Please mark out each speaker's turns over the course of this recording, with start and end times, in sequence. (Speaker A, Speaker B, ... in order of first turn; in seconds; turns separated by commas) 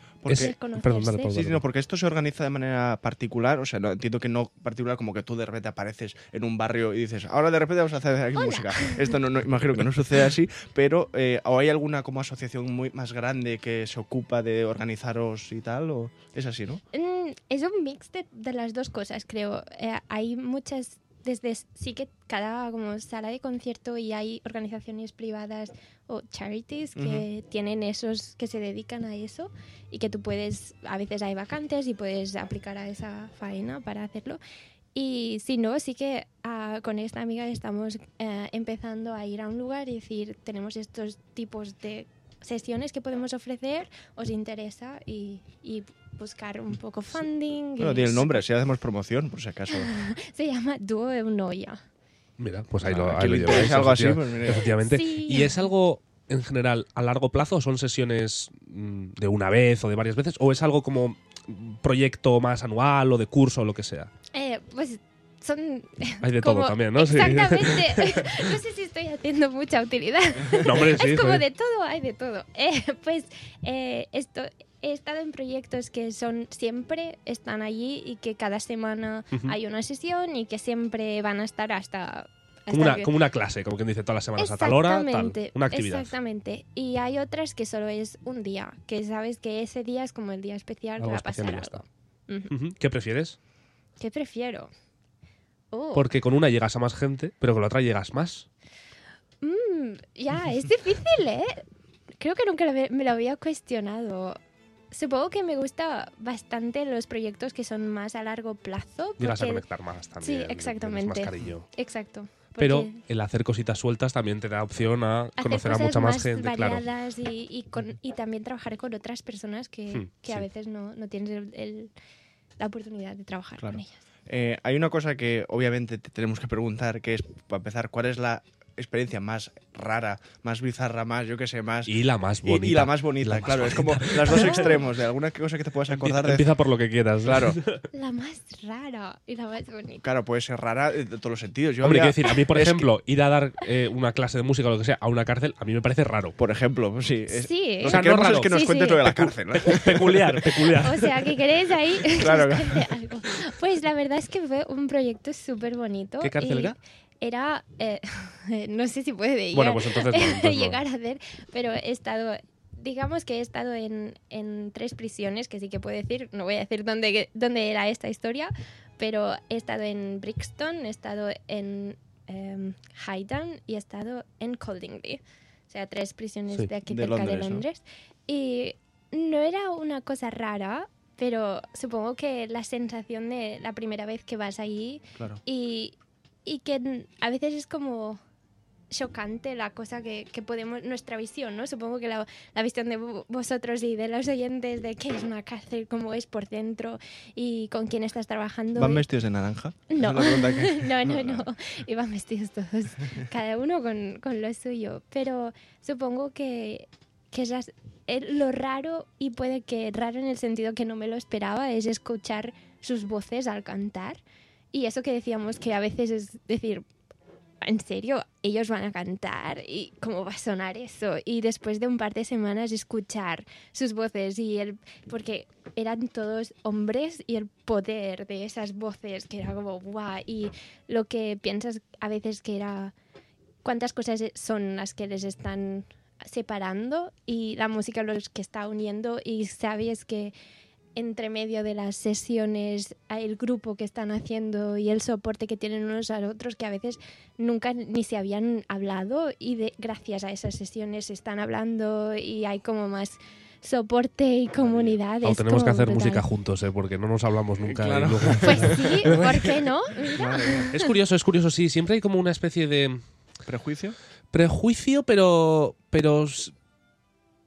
Speaker A: 0.2-0.5, Speaker B: 0.3-1.6, Speaker C: 0.3-1.3, Speaker A: 1.3-16.8, Speaker C: 8.3-9.1, Speaker C: 16.9-34.4, Speaker A: 26.9-27.2, Speaker C: 34.9-48.4, Speaker A: 47.8-49.9, Speaker C: 49.7-51.8, Speaker B: 52.4-64.1, Speaker A: 52.8-54.7, Speaker C: 54.6-55.5, Speaker C: 64.3-83.1, Speaker B: 66.2-68.4, Speaker B: 70.6-71.4, Speaker B: 82.7-86.1, Speaker C: 84.4-92.5, Speaker B: 91.0-91.8, Speaker B: 92.5-93.4, Speaker C: 94.0-94.7, Speaker C: 95.7-96.1, Speaker B: 95.9-98.5, Speaker C: 99.4-101.6, Speaker C: 102.2-104.4, Speaker C: 104.9-109.6, Speaker B: 109.2-111.7, Speaker C: 110.2-113.0, Speaker B: 112.6-116.8, Speaker C: 115.4-121.9, Speaker B: 119.9-120.4, Speaker C: 122.6-124.0, Speaker A: 123.6-136.5, Speaker B: 131.8-134.7, Speaker C: 134.3-134.8, Speaker B: 135.9-137.8, Speaker A: 137.2-137.6, Speaker C: 137.9-140.0, Speaker A: 140.0-142.9, Speaker B: 141.8-146.4, Speaker A: 146.4-150.4, Speaker C: 147.3-149.0, Speaker B: 147.8-151.2, Speaker C: 150.8-188.2, Speaker A: 152.2-152.9, Speaker B: 156.2-156.8, Speaker B: 159.5-160.8, Speaker A: 176.8-177.6, Speaker C: 188.9-199.0, Speaker A: 198.8-201.4, Speaker C: 199.9-214.2, Speaker C: 214.7-216.8, Speaker C: 217.6-232.9, Speaker C: 233.6-240.3, Speaker C: 240.9-256.2, Speaker A: 254.6-255.0, Speaker B: 255.2-259.5, Speaker A: 257.6-260.7, Speaker C: 258.4-260.9, Speaker B: 260.7-263.0, Speaker A: 263.4-263.9, Speaker B: 264.3-266.5